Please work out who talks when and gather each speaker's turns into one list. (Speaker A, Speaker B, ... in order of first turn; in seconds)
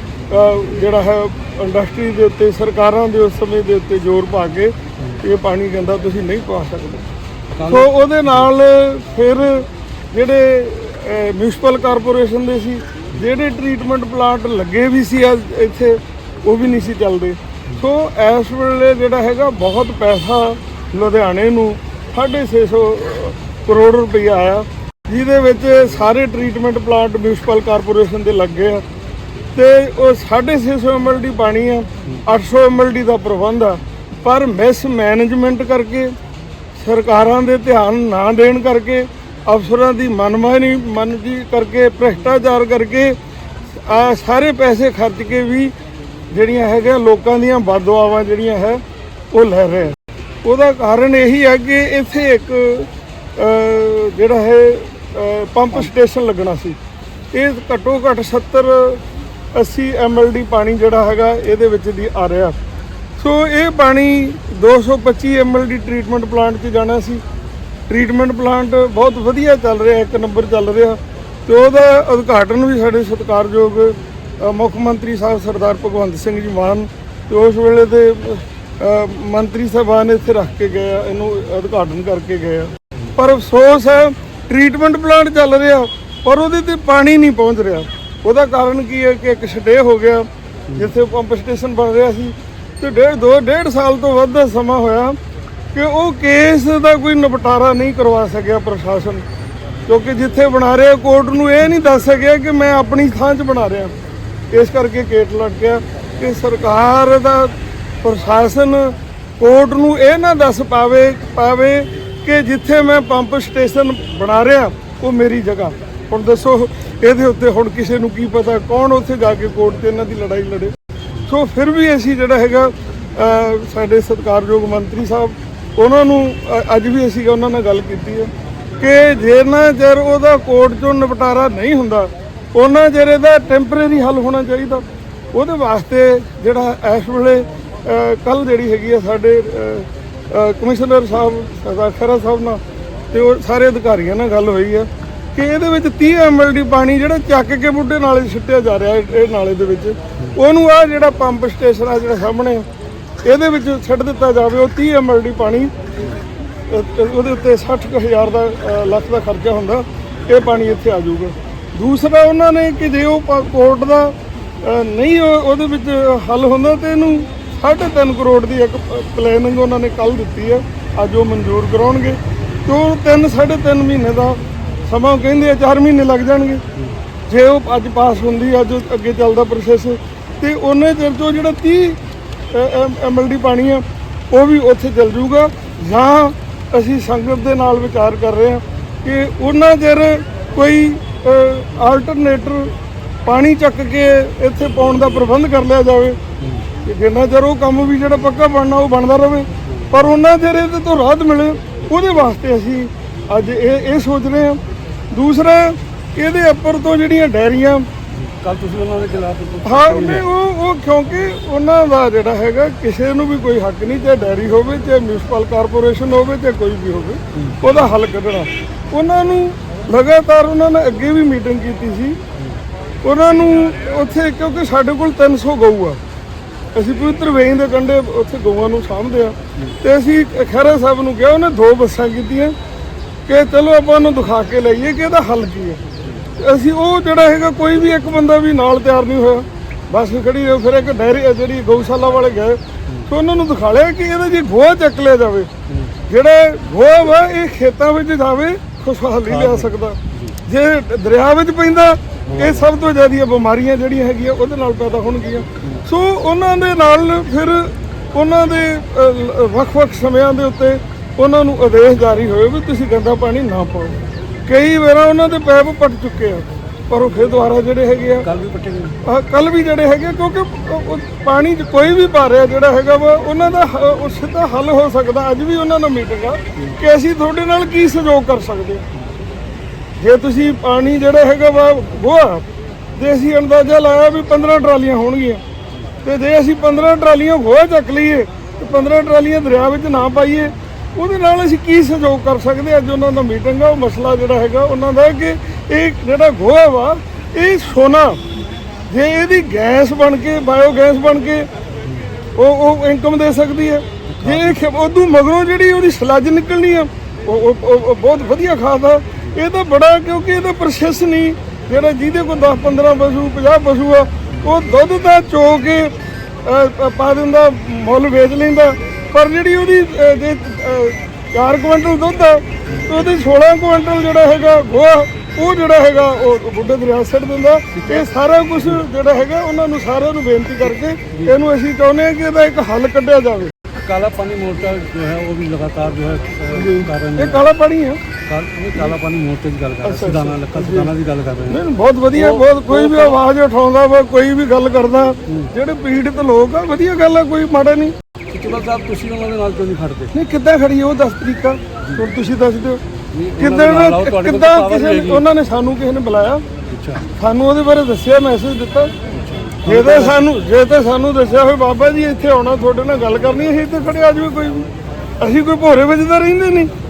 Speaker A: 0.3-7.0, 7.7-28.8, 29.6-36.1, 36.8-43.2, 43.8-45.7, 46.3-56.8, 57.3-59.0, 59.5-62.6, 63.2-67.2, 67.9-95.2, 95.7-99.2, 99.9-103.9, 104.5-120.7, 121.3-142.6, 143.1-152.7, 153.2-155.7, 156.7-176.6, 177.3-182.0, 182.5-192.7, 193.2-196.2, 196.8-204.6, 205.1-207.9, 209.6-222.2, 223.0-226.0, 226.8-232.6, 233.3-235.8, 236.4-245.5, 246.1-268.3, 269.0-278.9, 280.0-282.4, 283.0-285.4, 286.0-298.2, 298.9-301.5, 302.4-315.9, 316.4-333.5, 336.5-338.0, 339.8-340.9, 341.5-347.9, 350.1-352.8, 353.4-356.4, 357.0-358.9, 359.6-364.7, 365.2-366.7
Speaker B: 7.5-8.4, 208.2-210.3, 217.3-217.8, 249.3-250.4, 252.3-252.7, 268.2-269.0, 304.1-304.6, 327.7-328.1, 333.8-337.5, 338.3-343.2, 348.3-350.1, 353.1-355.3, 356.7-357.0, 359.1-360.2